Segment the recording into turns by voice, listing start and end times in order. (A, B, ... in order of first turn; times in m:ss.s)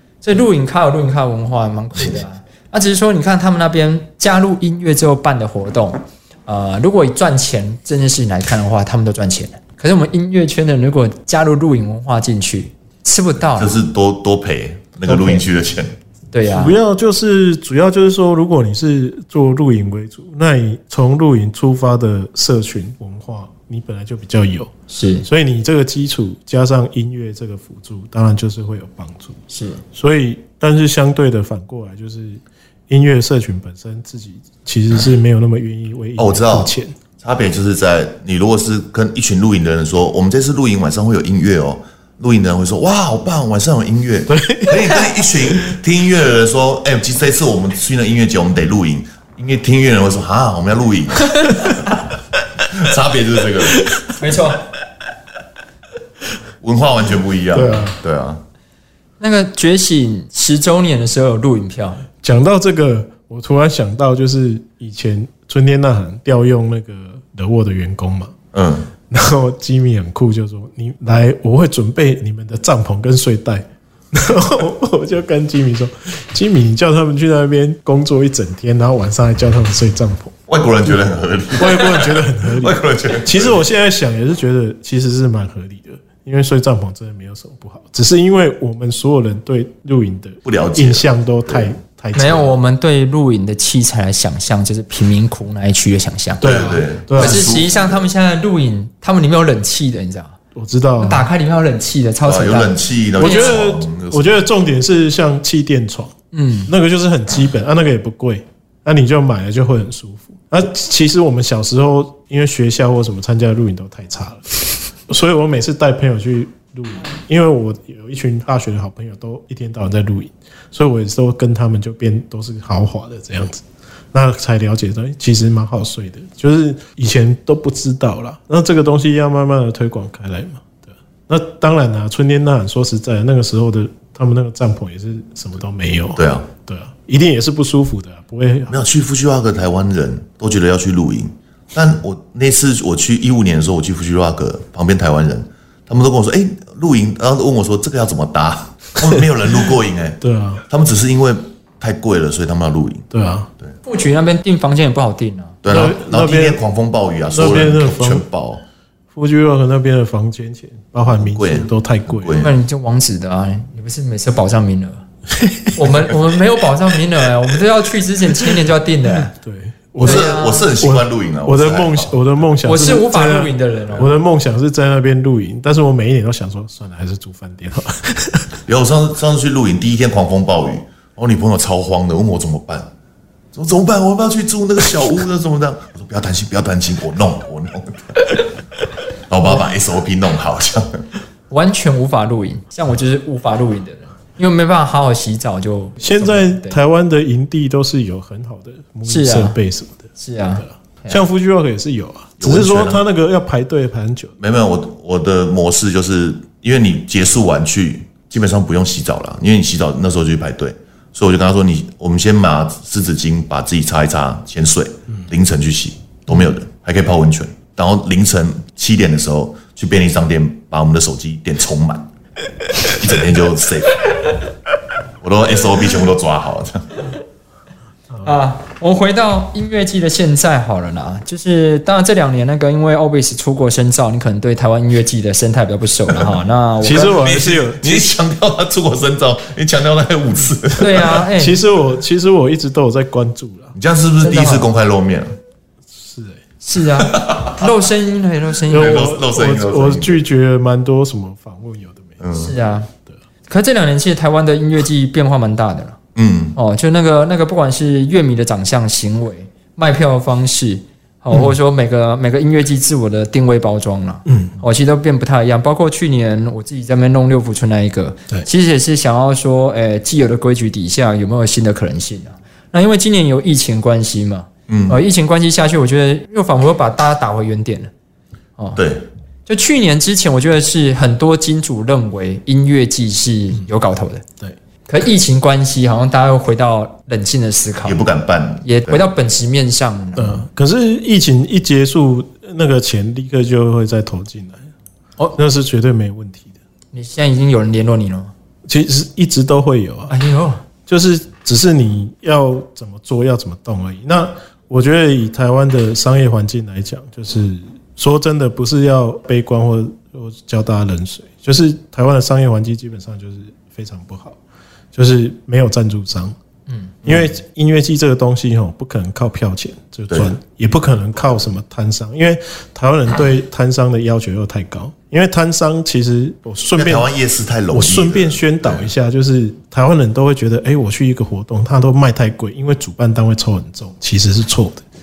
0:00.2-0:13.8 A
0:13.6-0:16.0 B
0:15.1-0:15.4 C
0:16.3-0:16.8 A
0:16.4-0:29.4 C
0:24.9-0:25.2 A
0:29.5-0:29.8 A
0:29.9-0:37.0 C
0:36.2-0:52.0 B
0:44.3-0:45.0 C
0:52.6-0:53.9 B
0:53.7-0:54.1 C
0:54.2-0:54.6 A
0:56.6-0:58.4 B
0:57.5-0:58.0 C
0:59.2-1:02.0 A
1:02.2-1:08.4 C
1:08.5-1:08.9 B
1:09.1-1:20.4 C
1:20.5-1:23.6 B
1:21.6-1:32.6 C
1:30.4-1:31.7 B
1:32.2-1:36.5 A
1:36.4-1:37.6 C
1:36.4-1:38.0 B
1:37.1-1:40.4 A
1:40.6-1:41.3 C
1:41.0-1:43.6 A
1:42.2-1:44.4 B
1:43.2-1:46.1 C
1:46.3-1:46.7 A
1:46.7-2:18.8 C
2:16.2-2:16.5 B
2:18.7-2:33.1 B
2:30.2-2:30.6 C
2:33.1-2:33.5 C
2:33.8-2:35.6 A
2:35.6-2:38.6 B
2:35.7-2:36.6 C
2:37.3-2:38.3 C
2:39.1-2:42.4 C
2:41.1-2:42.5 B
2:42.3-2:45.0 A
2:45.4-2:45.7 C
2:45.7-2:49.3 A
2:49.3-2:58.6 C
2:50.0-2:52.1 B
2:50.0-2:50.7 A
2:52.6-2:54.1 A
2:58.7-3:02.9 B
3:03.5-3:08.4 B
3:09.3-3:11.0 B
3:11.5-3:16.8 A
3:16.0-3:20.1 C
3:19.0-3:19.6 A
3:20.2-3:21.2 A
3:21.1-3:24.3 C
3:22.4-3:23.0 B
3:24.4-3:42.1 B
3:42.8-3:44.0 B
3:45.2-3:47.1 B
3:48.2-3:57.2 A
3:56.8-3:58.1 C
3:56.8-4:01.2 B
4:00.8-4:01.6 A
4:01.3-4:03.8 C
4:03.8-4:05.4 B
4:04.2-4:04.7 A
4:05.9-4:06.4 C
4:06.6-4:09.1 A
4:07.0-4:07.7 B
4:08.7-4:12.2 C
4:08.7-4:10.2 B
4:12.2-4:12.6 B
4:12.4-4:12.9 A
4:13.5-4:16.0 A
4:16.2-4:16.6 B
4:16.6-4:37.9 A
4:24.3-4:24.6 C
4:34.7-4:35.0 B
4:38.8-4:39.1 B
4:39.5-4:44.2 A
4:44.9-4:48.0 A
4:47.8-4:49.0 B
4:48.6-4:50.4 A
4:50.2-4:54.7 C
4:55.4-4:56.6 C
4:56.9-4:58.3 A
4:58.7-5:00.1 C
5:00.1-5:00.6 A
5:00.9-5:14.4 C
5:14.9-5:16.4 C
5:16.7-5:17.0 A
5:17.0-5:17.3 B
5:17.0-5:27.1 C
5:26.8-5:28.9 B
5:27.7-5:34.8 C